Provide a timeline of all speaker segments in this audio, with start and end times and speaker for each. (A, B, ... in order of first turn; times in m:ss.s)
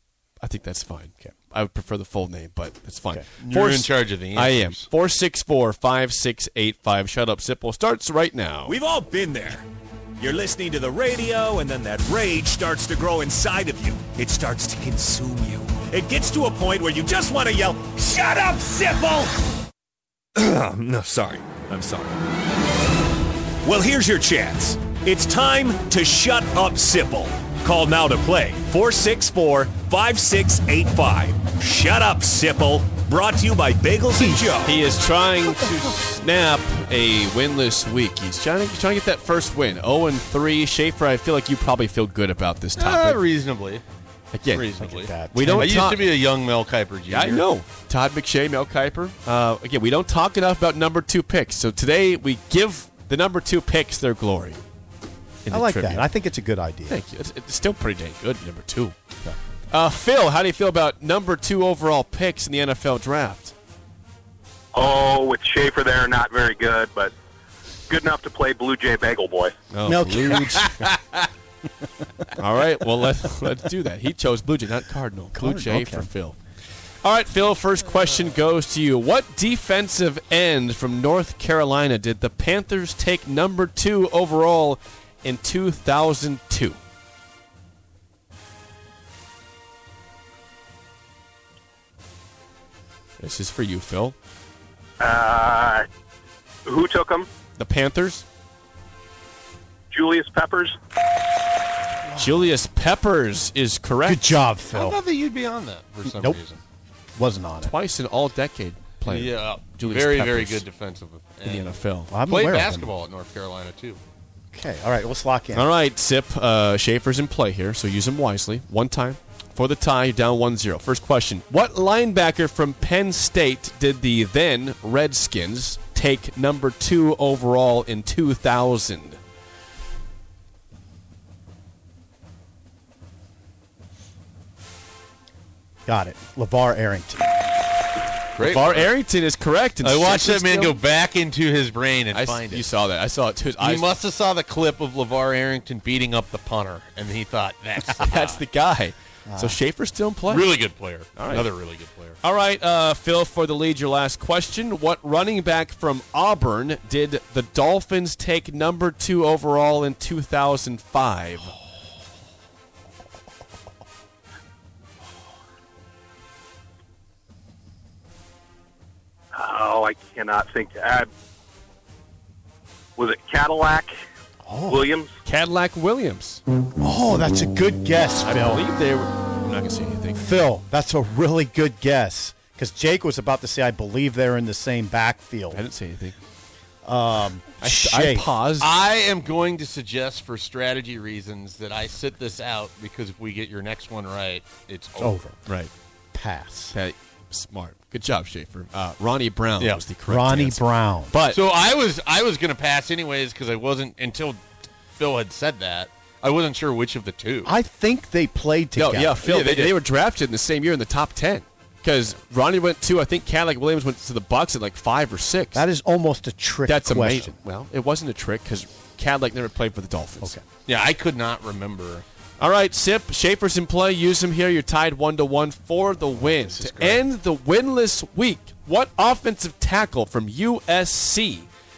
0:00.4-0:08.8 A
0:03.4-0:04.9 B
0:08.7-0:09.7 C
0:10.2-0:19.4 C
0:20.4-0:22.2 C
0:23.6-0:34.7 C
0:34.2-0:34.6 D
0:34.6-0:43.2 A
0:42.8-0:43.8 B
0:44.3-0:44.7 A
0:44.5-0:47.4 B
0:44.8-0:45.9 D
0:45.3-0:46.1 A
0:47.1-0:54.6 A
0:55.4-0:56.1 A
0:55.5-0:57.0 D
0:56.9-0:59.0 A
0:59.7-1:03.5 A
1:04.8-1:07.1 E
1:07.9-1:09.5 E
1:09.7-1:10.7 A
1:09.9-1:10.9 D
1:10.5-1:11.3 B
1:12.4-1:16.4 A
1:15.4-1:16.1 D
1:17.0-1:26.8 A
1:33.2-1:34.2 A
1:35.0-1:35.9 E
1:36.7-1:37.3 E
1:37.6-1:38.2 A
1:39.9-1:40.8 E
1:42.2-1:42.4 D
1:42.2-1:44.4 A
1:44.0-1:45.0 D
1:44.7-1:46.6 B
1:46.1-1:46.4 D
1:47.2-1:47.8 D
1:47.6-1:50.6 A
1:49.0-1:51.8 B
1:51.4-1:52.1 A
1:52.1-1:52.9 D
1:52.3-1:54.0 B
1:54.5-1:55.7 D
1:55.5-2:09.2 A
2:15.9-2:17.6 D
2:18.4-2:18.9 B
2:18.4-2:20.8 A
2:19.8-2:22.7 B
2:22.1-2:23.9 A
2:23.6-2:28.4 B
2:28.0-2:30.5 A
2:29.3-2:29.6 D
2:30.3-2:32.2 B
2:31.2-2:31.5 A
2:32.2-2:41.6 A
2:49.3-2:51.1 E
2:53.0-2:54.0 E
2:54.4-2:54.9 D
2:54.7-2:55.1 E
2:55.2-2:56.4 A
2:56.8-2:58.6 D
2:58.2-3:00.4 A
3:00.2-3:05.6 D
3:05.5-3:06.2 A
3:06.8-3:08.3 D
3:07.6-3:08.7 A
3:08.6-3:15.2 B
3:15.0-3:15.4 D
3:16.1-3:16.8 D
3:16.7-3:21.4 A
3:20.1-3:21.2 D
3:21.3-3:27.5 B
3:27.4-3:29.5 D
3:28.8-3:35.6 A
3:29.3-3:29.7 B
3:35.5-3:37.4 D
3:36.7-3:40.4 A
3:40.7-3:42.0 B
3:42.4-3:51.5 A
3:46.2-3:47.0 D